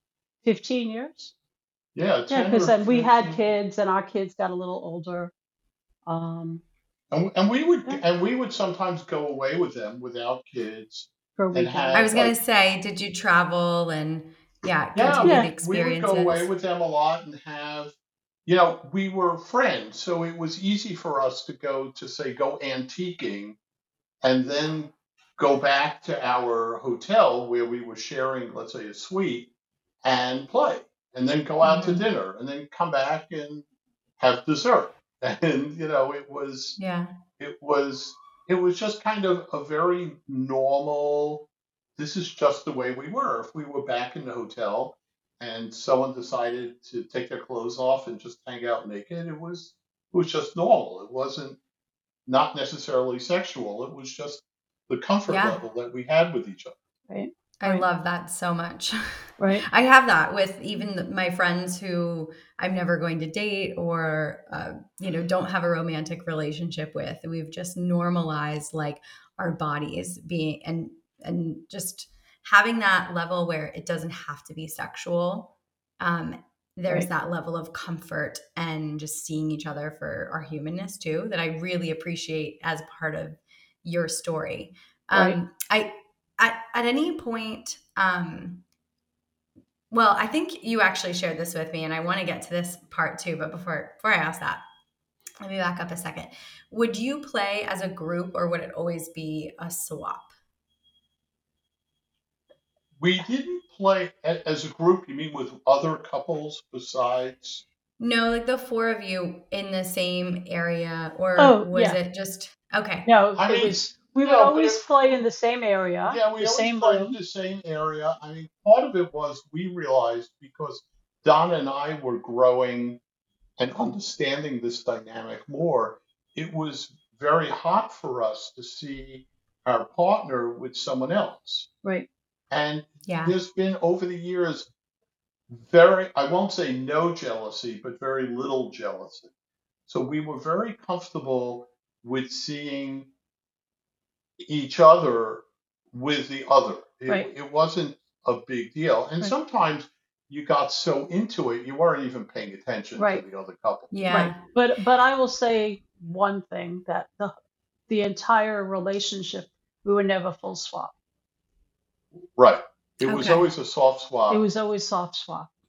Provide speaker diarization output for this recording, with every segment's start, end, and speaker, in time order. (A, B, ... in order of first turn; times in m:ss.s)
0:00.4-0:01.3 A
0:01.9-0:03.4 B
0:02.3-0:05.3 A
0:06.1-0:06.6 A
0:07.1-0:12.3 B
0:11.4-0:12.0 A
0:11.9-0:16.5 C
0:14.9-0:17.9 B
0:15.2-0:15.5 A
0:18.4-0:23.6 B
0:24.2-0:29.5 B
0:30.0-0:33.6 B
0:31.6-0:32.0 C
0:34.2-0:36.8 B
0:36.8-0:37.1 C
0:37.4-0:51.6 B
0:52.2-0:56.8 B
0:55.3-0:55.6 C
0:57.1-0:57.8 A
0:57.6-1:28.6 C
0:59.4-0:59.6 A
1:29.9-1:34.6 C
1:35.4-1:40.3 C
1:43.0-1:47.6 B
1:48.0-1:53.1 C
1:51.4-1:52.0 A
1:53.0-1:57.1 A
1:53.4-1:55.2 B
1:56.1-2:03.0 B
2:03.6-2:11.7 B
2:12.5-2:14.7 B
2:13.1-2:13.3 C
2:15.5-2:19.3 B
2:19.9-2:23.1 B
2:24.4-2:33.9 B
2:33.0-2:33.2 A
2:33.9-2:34.4 C
2:34.1-2:37.3 A
2:37.9-2:40.9 A
2:42.4-2:44.4 B
2:43.0-2:43.4 C
2:44.3-2:45.5 A